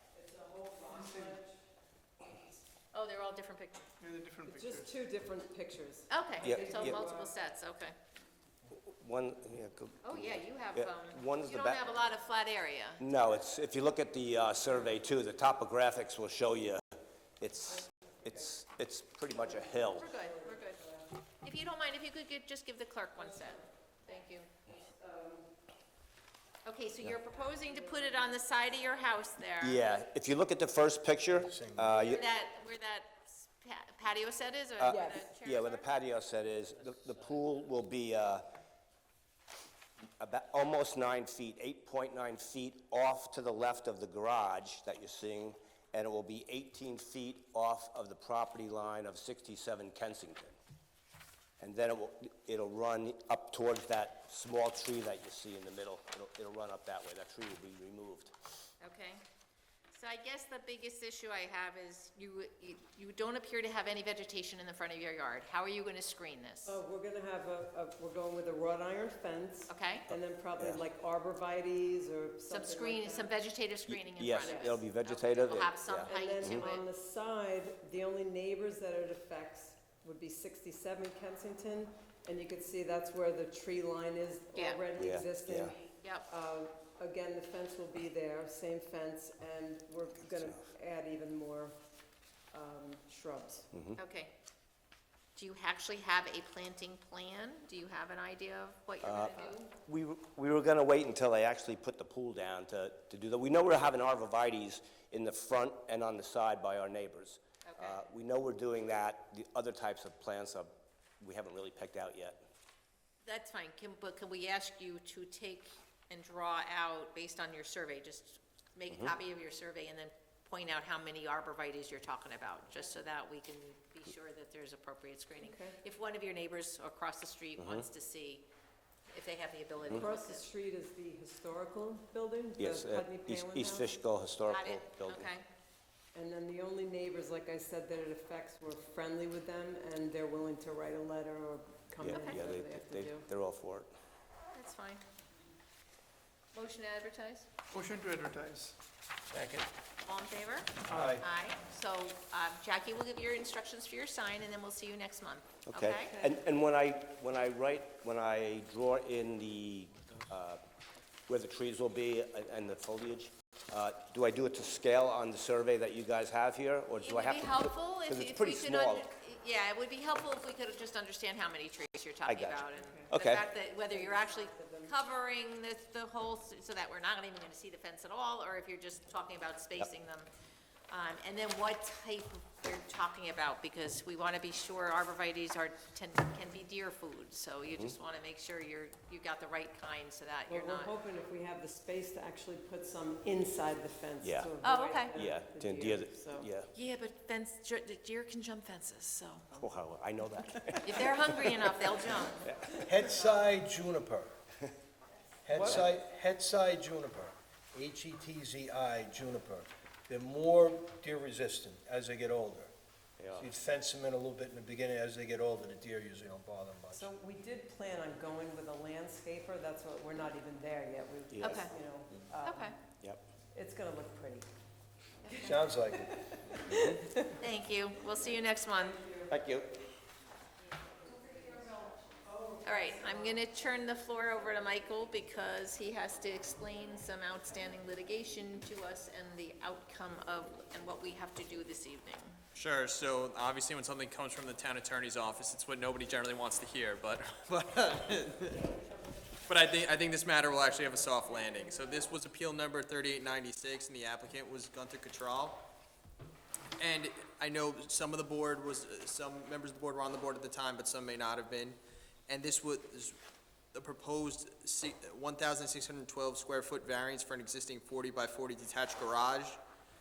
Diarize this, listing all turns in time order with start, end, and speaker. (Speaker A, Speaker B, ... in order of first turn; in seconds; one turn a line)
Speaker A: 0.1-1.6
Speaker A: 2.2-2.6
Speaker B: 2.9-3.9
Speaker C: 4.0-4.9
Speaker A: 4.4-7.3
Speaker B: 6.1-7.9
Speaker D: 6.4-7.1
Speaker D: 8.7-11.9
Speaker B: 10.0-13.0
Speaker D: 13.0-20.1
Speaker A: 19.5-21.1
Speaker B: 19.9-20.8
Speaker B: 21.4-24.5
Speaker A: 24.7-25.5
Speaker B: 26.6-29.8
Speaker A: 27.6-28.2
Speaker D: 29.6-32.2
Speaker C: 31.5-31.9
Speaker B: 32.0-35.9
Speaker D: 34.8-38.5
Speaker A: 34.9-35.3
Speaker D: 40.2-50.5
Speaker D: 51.6-58.3
Speaker B: 58.8-59.2
Speaker B: 59.9-66.8
Speaker A: 66.6-73.3
Speaker B: 69.7-70.1
Speaker B: 72.5-76.8
Speaker D: 73.9-76.7
Speaker A: 74.4-74.8
Speaker A: 76.0-91.7
Speaker B: 84.5-84.8
Speaker D: 85.0-85.7
Speaker B: 86.0-86.3
Speaker A: 92.5-93.7
Speaker D: 93.7-94.0
Speaker B: 94.0-94.3
Speaker B: 95.3-99.7
Speaker D: 99.0-112.4
Speaker B: 107.7-108.0
Speaker B: 113.2-128.5
Speaker A: 125.4-125.7
Speaker D: 127.6-127.8
Speaker B: 129.1-130.4
Speaker A: 129.9-133.9
Speaker D: 132.6-135.3
Speaker B: 134.5-135.4
Speaker A: 136.1-143.2
Speaker D: 142.0-143.9
Speaker B: 144.5-145.0
Speaker B: 146.5-147.5
Speaker C: 147.7-148.7
Speaker C: 149.3-149.7
Speaker B: 150.1-156.2
Speaker C: 150.9-151.2
Speaker D: 155.7-160.6
Speaker D: 161.3-169.1
Speaker B: 167.0-180.3
Speaker D: 172.2-173.4
Speaker A: 172.7-173.1
Speaker A: 173.7-175.0
Speaker B: 180.9-190.9
Speaker A: 190.5-196.5
Speaker D: 194.2-194.5
Speaker B: 194.6-195.1
Speaker D: 195.1-196.7
Speaker B: 196.7-199.7
Speaker D: 199.5-201.7
Speaker B: 200.8-202.5
Speaker D: 202.4-202.9
Speaker C: 202.8-204.3
Speaker C: 205.4-212.7
Speaker A: 205.5-205.9
Speaker D: 213.2-213.5
Speaker C: 213.3-217.1
Speaker A: 216.9-222.8
Speaker D: 221.3-221.7
Speaker B: 221.4-221.7
Speaker B: 222.4-222.7
Speaker A: 223.5-224.5
Speaker B: 225.2-225.5
Speaker A: 225.3-227.2
Speaker C: 225.5-226.1
Speaker B: 227.2-229.0
Speaker D: 229.3-229.7
Speaker A: 231.1-233.4
Speaker B: 232.6-242.4
Speaker E: 242.5-248.7
Speaker E: 249.4-255.6
Speaker E: 256.8-261.8
Speaker E: 262.3-263.2
Speaker E: 263.7-269.6